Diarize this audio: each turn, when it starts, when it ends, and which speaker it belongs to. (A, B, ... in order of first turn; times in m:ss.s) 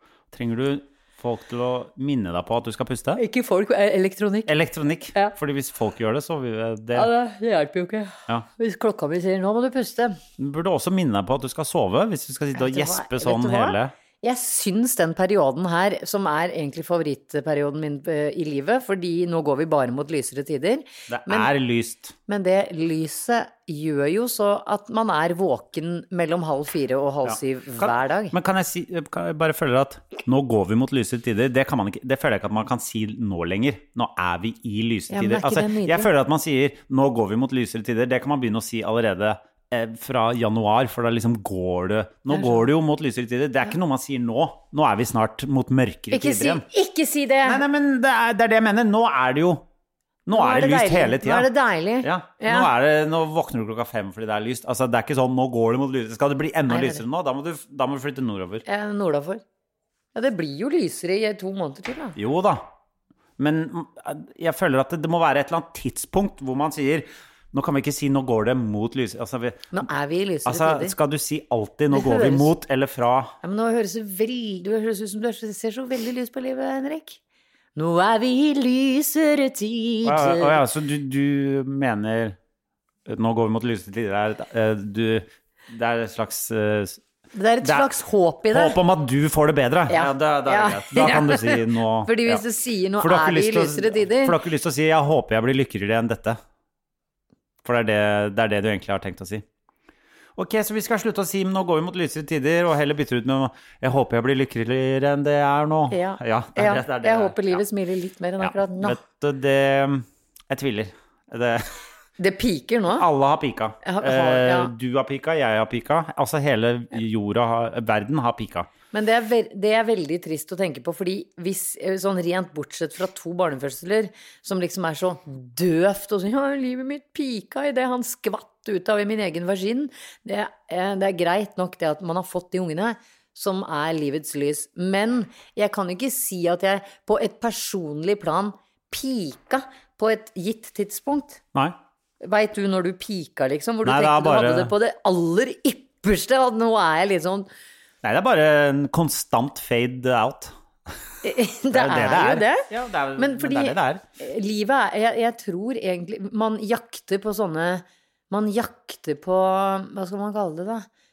0:00.3-0:03.2 A
0:03.2-0:04.5 B
0:04.5-0:07.1 A
0:06.9-0:10.2 B
0:10.4-0:13.9 A
0:12.5-0:21.5 B
0:21.1-0:22.1 A
0:22.3-0:28.3 B
0:27.2-0:46.6 A
0:35.1-0:36.1 B
0:42.3-0:42.6 B
0:46.1-0:47.6 B
0:47.4-0:49.6 A
0:50.3-0:51.5 A
0:50.3-0:52.7 B
0:52.0-0:58.6 A
0:56.7-0:57.0 B
0:58.6-0:59.4 B
1:00.1-1:02.2 B
1:02.2-1:02.7 A
1:03.4-1:09.8 A
1:09.7-1:10.9 B
1:10.4-1:13.3 A
1:11.9-1:12.5 B
1:13.4-1:17.2 B
1:17.7-1:20.6 B
1:20.0-1:22.4 A
1:23.0-1:27.0 A
1:27.3-1:28.8 B
1:27.6-1:27.9 A
1:28.5-1:32.4 A
1:29.9-1:34.4 B
1:33.0-1:36.4 A
1:37.6-1:39.4 A
1:40.4-1:47.6 A
1:45.9-1:49.0 B
1:48.4-1:51.8 A
1:52.2-1:53.0 B
1:53.0-1:58.7 A
1:53.8-1:54.7 B
1:58.9-2:21.4 B
2:22.2-2:27.5 B
2:23.8-2:24.7 A
2:28.0-2:30.5 A
2:31.2-2:40.9 B
2:31.7-2:34.0 A